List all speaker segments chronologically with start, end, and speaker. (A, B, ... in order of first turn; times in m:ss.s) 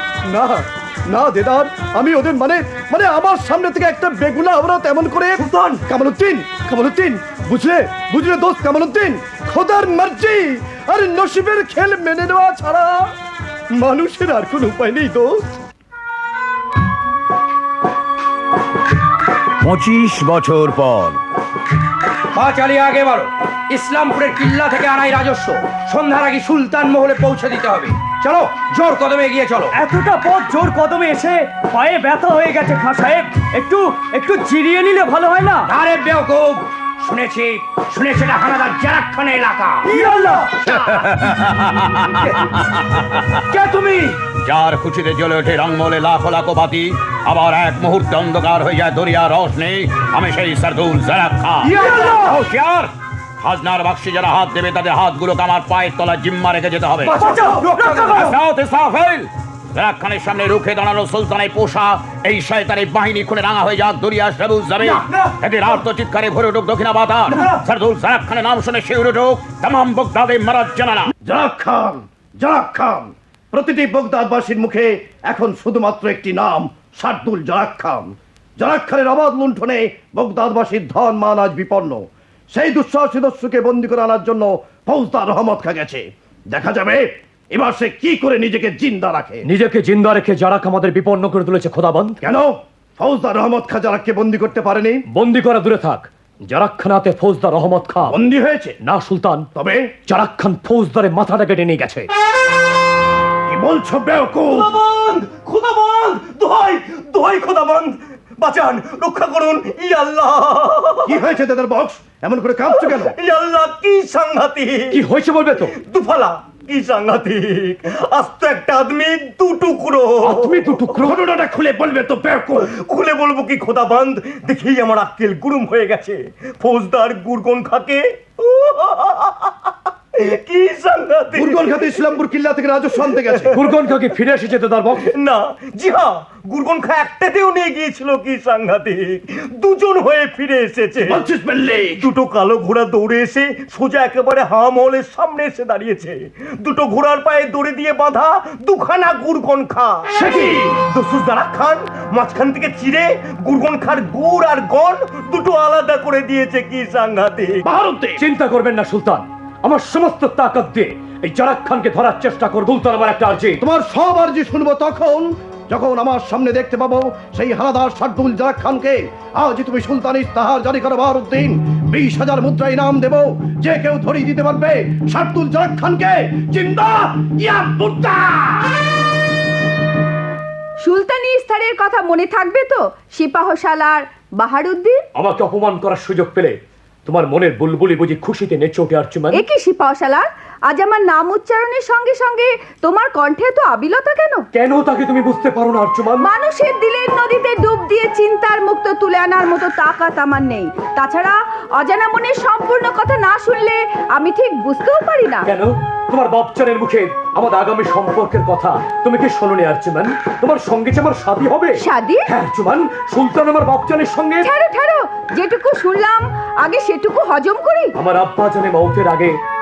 0:00.3-0:13.0 A
0:05.4-0:05.8 B
0:13.8-0:15.3 A
0:19.6-0:21.2 C
0:22.4-0:29.8 D
0:29.8-0:33.8 E
0:31.7-0:32.6 F
0:34.4-0:35.6 F
0:35.7-0:39.9 D
0:39.8-0:40.6 E
0:40.2-0:40.5 A
0:40.7-0:43.4 C
0:43.6-0:44.0 E
0:44.4-0:52.9 C
0:51.7-0:52.4 E
0:53.4-0:57.3 C
0:57.1-0:58.3 E
0:58.1-1:11.1 C
1:11.2-1:29.4 A
1:29.4-1:32.2 F
1:32.2-1:35.0 A
1:35.1-1:38.2 F
1:38.1-1:38.8 A
1:38.8-1:39.5 F
1:39.6-1:40.0 A
1:40.1-1:42.1 F
1:43.5-1:44.7 A
1:44.5-1:51.3 B
1:51.1-1:53.1 A
1:52.7-1:55.0 B
1:54.9-1:55.7 F
1:55.7-2:01.2 B
2:00.2-2:01.2 F
2:01.1-2:02.6 A
2:02.6-2:09.6 B
2:10.1-2:12.2 B
2:11.3-2:13.5 A
2:13.1-2:13.5 B
2:13.5-2:15.1 F
2:15.0-2:21.3 B
2:21.0-2:22.1 A
2:21.9-2:30.2 B
2:30.1-2:30.8 A
2:30.7-2:37.6 B
2:37.7-2:38.2 A
2:38.2-2:43.6 F
2:43.6-2:58.7 A
3:00.8-3:05.0 G
3:05.2-3:06.6 F
3:07.1-3:09.4 F
3:09.3-3:14.4 G
3:14.5-3:16.3 F
3:16.2-3:25.5 G
3:25.5-3:34.5 F
3:31.8-3:32.3 G
3:34.4-3:37.9 G
3:38.0-3:39.4 F